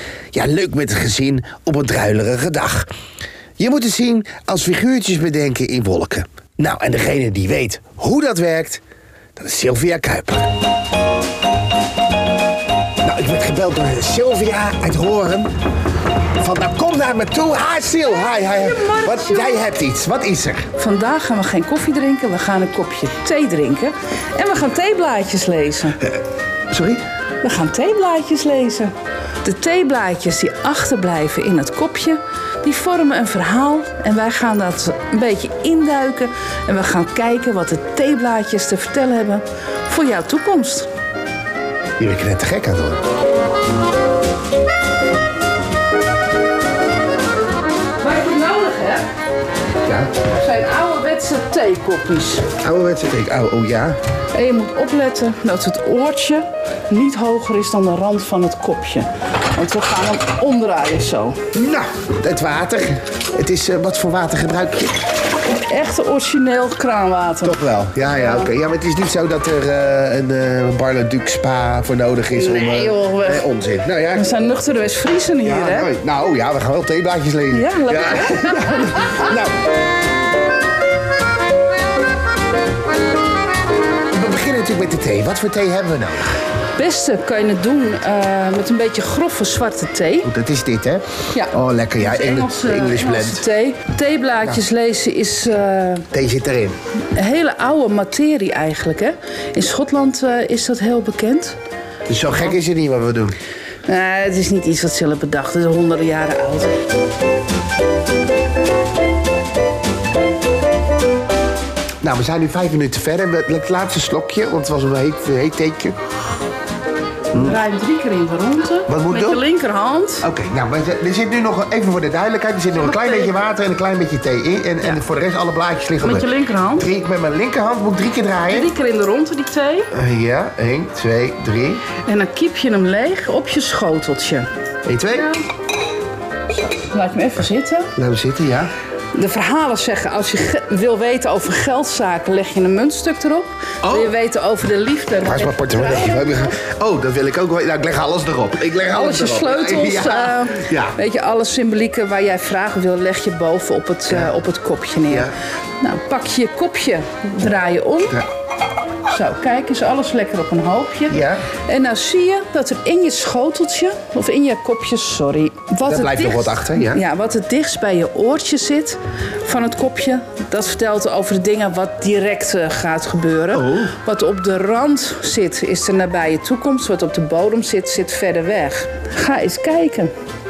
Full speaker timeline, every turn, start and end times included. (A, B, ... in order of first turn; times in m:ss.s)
0:00.3-0:02.9 A
0:03.6-0:08.8 A
0:09.4-0:10.5 A
0:13.0-0:15.5 A
0:16.4-0:20.7 A
0:18.4-0:19.6 B
0:20.8-0:26.0 B
0:26.7-0:27.0 A
0:27.4-0:28.9 B
0:29.4-0:40.9 B
0:42.0-0:43.0 A
0:48.0-0:49.1 B
0:49.8-0:50.1 A
0:50.3-0:52.5 B
0:52.6-0:54.0 A
0:54.3-1:01.4 B
1:01.5-1:05.0 A
1:05.5-1:08.5 B
1:07.4-1:14.3 A
1:12.3-1:13.5 B
1:14.1-1:15.9 B
1:15.4-1:19.5 A
1:17.5-1:19.2 B
1:24.1-1:26.3 A
1:26.8-1:30.3 B
1:30.2-1:33.4 A
1:31.3-1:36.1 B
1:36.1-1:36.8 A
1:37.2-1:41.6 B
1:42.1-1:43.4 A
1:43.9-1:46.7 B
1:52.0-1:56.0 A
1:57.3-2:00.3 B
1:57.3-1:57.6 A
1:58.9-1:59.4 A
2:00.2-2:08.7 A
2:02.7-2:03.4 B
2:06.0-2:06.9 B
2:08.5-2:09.9 B
2:09.9-2:11.9 A
2:12.0-2:14.5 B
2:14.8-2:15.4 A
2:15.1-2:15.4 B
2:16.5-2:17.9 B
2:18.0-2:18.7 A
2:19.1-2:26.5 B
2:23.8-2:24.1 A
2:25.2-2:31.0 A
2:28.9-2:38.2 B
2:34.1-2:34.3 A
2:35.1-2:35.3 A
2:39.1-3:00.1 B
2:41.1-2:41.4 A
2:45.8-2:47.0 A
2:53.5-2:53.9 A